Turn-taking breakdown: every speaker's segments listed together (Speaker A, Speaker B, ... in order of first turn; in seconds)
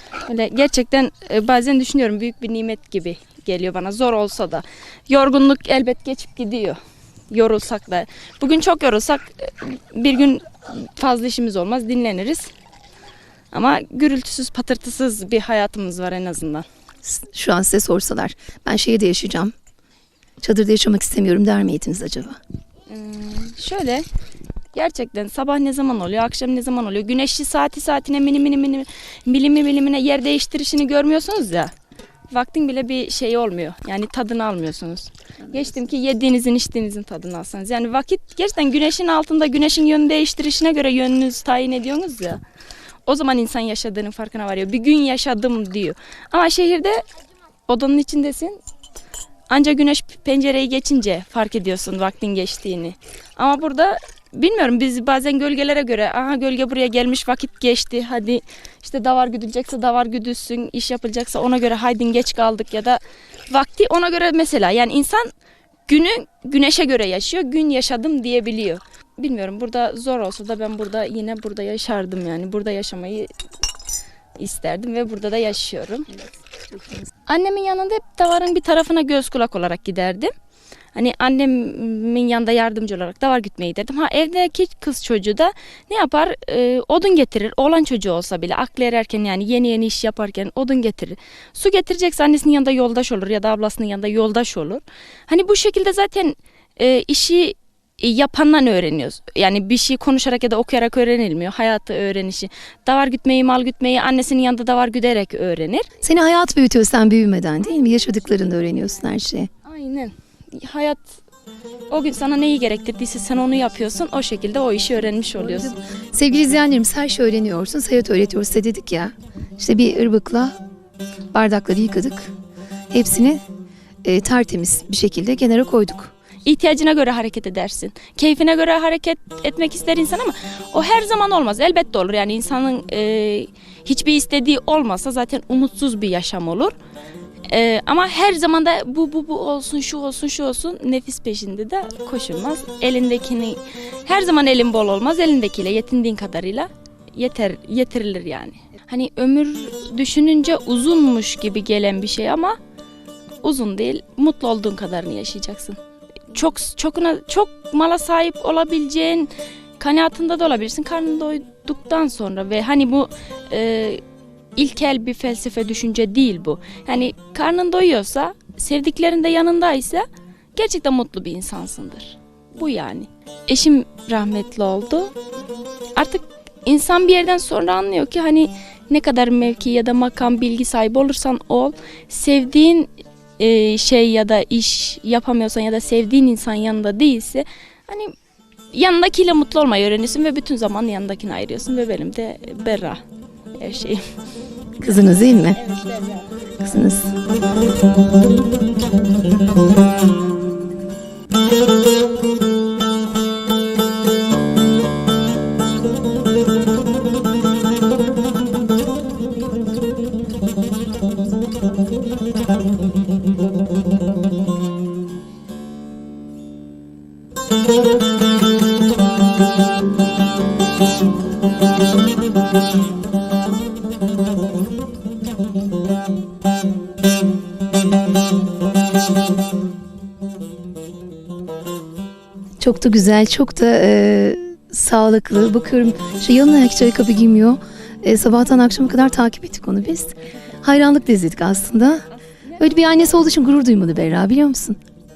Speaker A: 0.2-6.8, 7.3-12.5, 13.5-16.6, 22.9-24.1, 24.7-31.7, 32.3-42.4, 43.0-47.0, 47.6-48.6, 49.5-65.3, 65.9-73.3, 74.4-76.2, 77.2-80.3, 80.9-105.9, 109.6-111.2, 111.9-115.7, 126.4-136.7, 137.5-152.6, 153.4-155.8, 156.3-164.0, 164.6-175.1, 175.9-188.1, 188.7-193.0, 193.6-194.0, 194.8-196.4
Speaker B: 17.0-19.5, 20.4-22.4, 76.7-77.0, 106.0-109.5, 115.3-120.5, 121.3-122.3, 122.9-123.4, 124.0-126.1, 194.8-195.6, 196.6-197.1, 232.6-242.1, 242.6-244.8